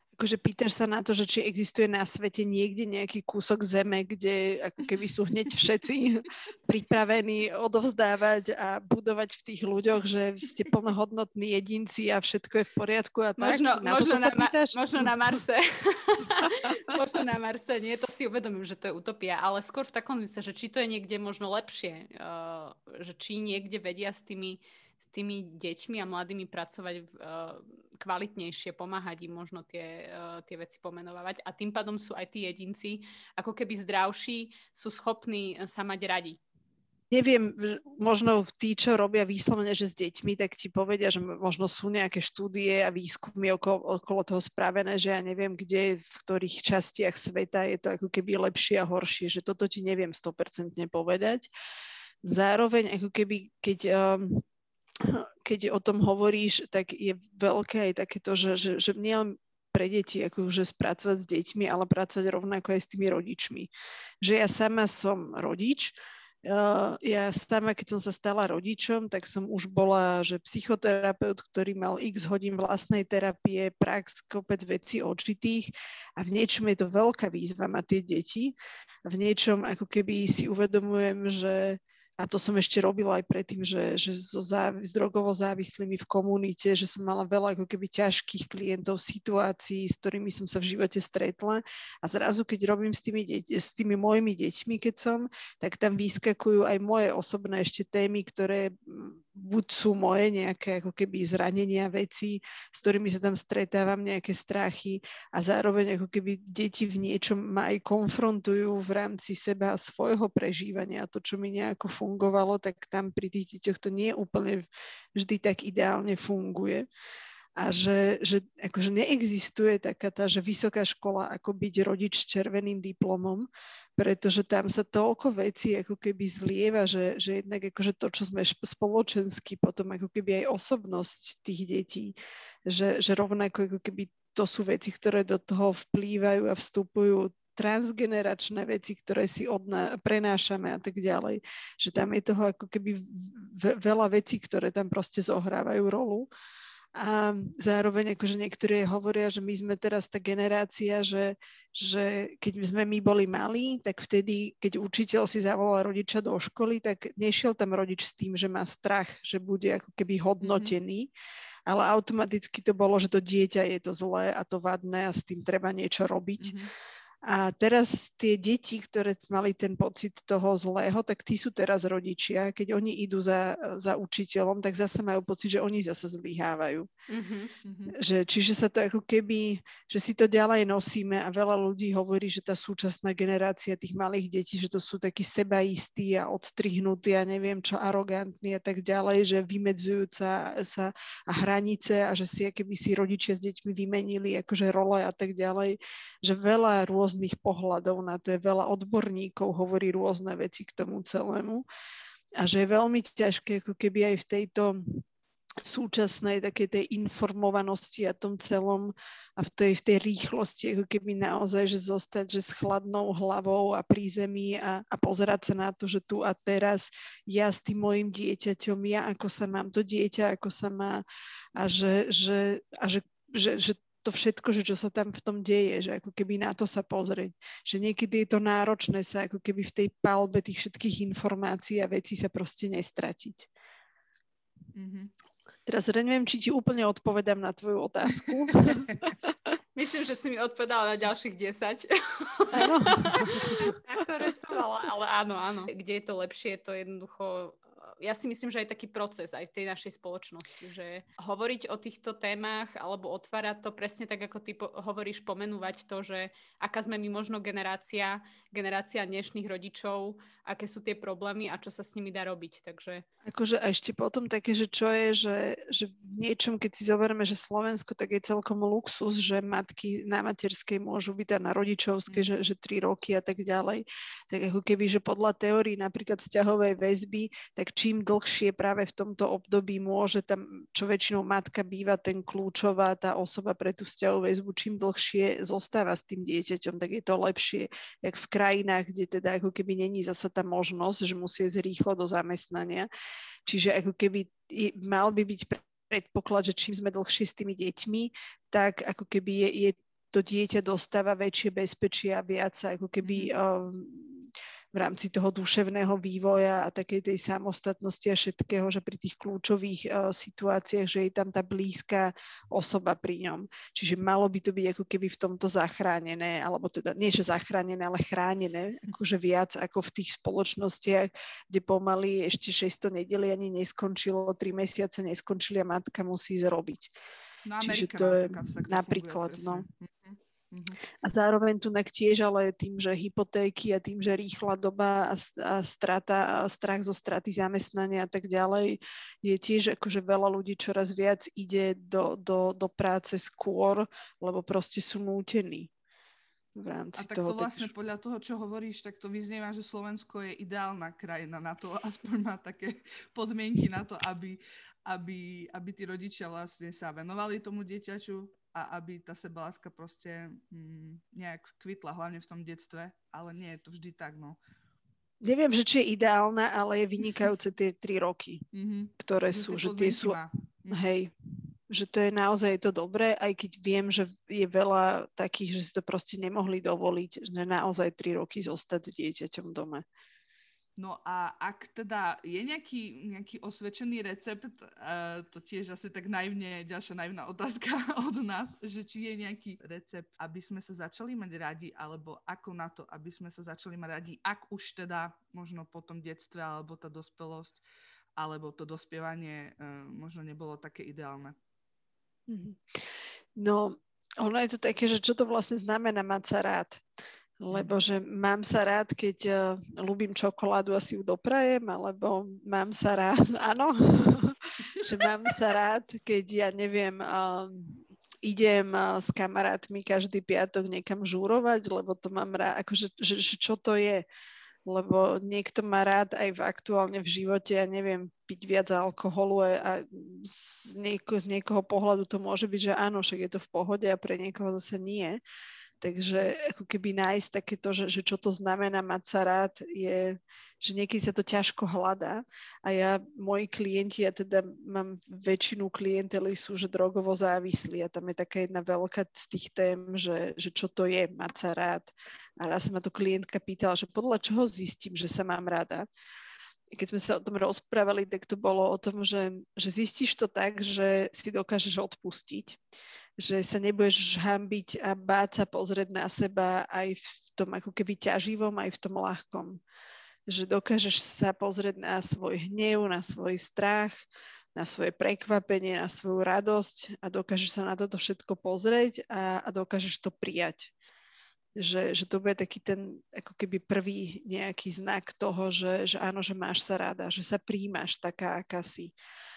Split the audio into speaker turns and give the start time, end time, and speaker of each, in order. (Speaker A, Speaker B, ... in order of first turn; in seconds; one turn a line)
Speaker A: 0.2-15.3
Speaker B: 13.4-36.4
Speaker A: 16.4-16.9
Speaker A: 37.1-51.5
Speaker A: 52.2-54.4
Speaker A: 55.0-63.7
Speaker A: 64.2-114.6
Speaker A: 115.2-116.9
Speaker A: 117.6-146.3
Speaker A: 146.9-161.1
Speaker C: 160.4-160.8
Speaker A: 161.7-166.6
Speaker C: 166.4-166.7
Speaker A: 167.2-176.9
Speaker B: 177.1-177.5
Speaker C: 177.6-177.9
Speaker A: 177.9-201.6
Speaker A: 202.4-205.0
Speaker A: 205.6-221.0
Speaker A: 221.6-233.5
Speaker C: 234.7-235.1
Speaker A: 235.7-238.9
Speaker C: 238.1-239.0
Speaker B: 239.8-263.0
Speaker A: 242.5-243.6
Speaker A: 263.2-292.9
Speaker C: 272.1-272.3
Speaker A: 293.4-326.9
Speaker C: 327.4-330.8
Speaker A: 327.6-329.6
Speaker A: 331.0-345.7
Speaker A: 346.5-347.7
Speaker C: 346.9-364.4
Speaker A: 365.2-368.5
Speaker C: 368.5-370.8
Speaker A: 369.0-370.2
Speaker A: 370.7-371.1
Speaker A: 371.7-379.8
Speaker C: 380.8-397.6
Speaker C: 398.2-401.4
Speaker A: 402.3-402.6
Speaker A: 403.4-406.8
Speaker A: 407.4-424.0
Speaker A: 424.6-435.2
Speaker A: 435.8-455.9
Speaker A: 456.7-462.6
Speaker A: 463.2-469.6
Speaker A: 470.3-480.7
Speaker A: 481.6-488.9